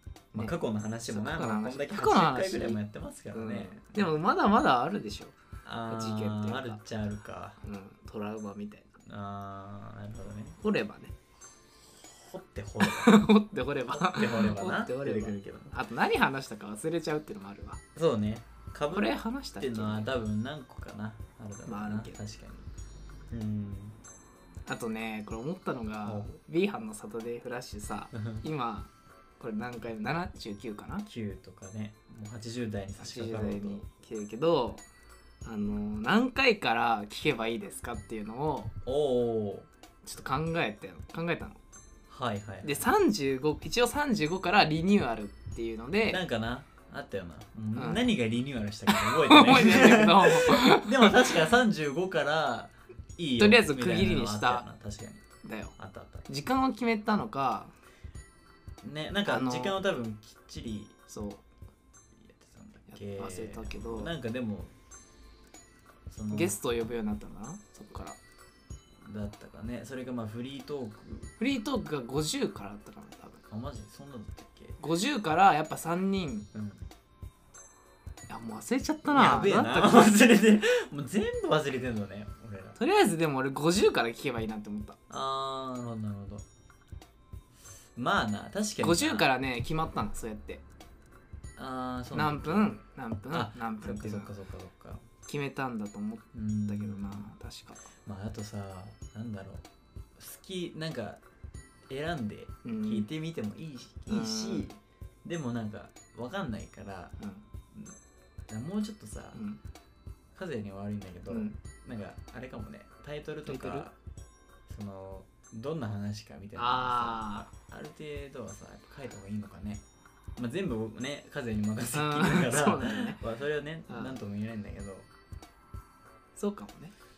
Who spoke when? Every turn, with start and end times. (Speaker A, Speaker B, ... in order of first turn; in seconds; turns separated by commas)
Speaker A: 0.3-2.8, Speaker B: 0.3-4.1, Speaker A: 3.3-5.4, Speaker B: 5.6-7.6, Speaker A: 5.9-6.8, Speaker A: 7.6-8.9, Speaker B: 9.1-10.6, Speaker A: 10.6-11.1, Speaker B: 11.9-13.3, Speaker A: 12.8-17.8, Speaker B: 13.9-15.8, Speaker B: 17.9-22.7, Speaker A: 18.9-20.1, Speaker A: 21.7-22.2, Speaker B: 23.3-24.0, Speaker A: 24.7-31.1, Speaker B: 26.1-26.4, Speaker B: 28.1-28.5, Speaker B: 31.1-33.9, Speaker A: 33.0-34.8, Speaker A: 35.5-38.7, Speaker B: 38.9-39.7, Speaker A: 40.0-41.6, Speaker B: 42.1-42.9, Speaker A: 42.6-46.2, Speaker B: 46.1-55.3, Speaker A: 47.8-48.1, Speaker A: 48.9-51.4, Speaker A: 53.4-54.7, Speaker A: 55.4-55.7, Speaker B: 55.8-56.3, Speaker A: 56.3-57.7, Speaker B: 58.8-61.0, Speaker A: 59.3-59.8, Speaker A: 61.1-61.4, Speaker B: 62.2-64.7, Speaker A: 62.9-64.1, Speaker B: 66.1-66.6, Speaker A: 66.3-68.2, Speaker B: 69.0-71.3, Speaker A: 71.4-73.4, Speaker B: 73.5-74.8, Speaker A: 74.8-76.5, Speaker B: 76.5-76.9, Speaker A: 78.3-80.1, Speaker B: 79.1-82.8, Speaker A: 82.8-85.0, Speaker B: 85.1-86.5, Speaker B: 88.0-89.3, Speaker A: 88.8-90.6, Speaker B: 91.6-92.8, Speaker A: 92.1-94.3, Speaker B: 93.3-95.0, Speaker A: 95.2-97.9, Speaker B: 96.3-97.3, Speaker B: 98.0-99.7, Speaker B: 100.2-101.2, Speaker B: 101.9-107.2, Speaker A: 102.6-103.1, Speaker A: 104.1-104.7, Speaker A: 107.2-107.5, Speaker B: 108.5-109.4, Speaker A: 109.3-109.6, Speaker B: 110.3-114.0, Speaker A: 111.3-111.6, Speaker A: 113.5-113.9, Speaker B: 114.7-119.8, Speaker A: 116.6-117.5, Speaker B: 120.4-125.1, Speaker A: 121.9-123.2, Speaker A: 123.9-124.2, Speaker A: 126.4-126.9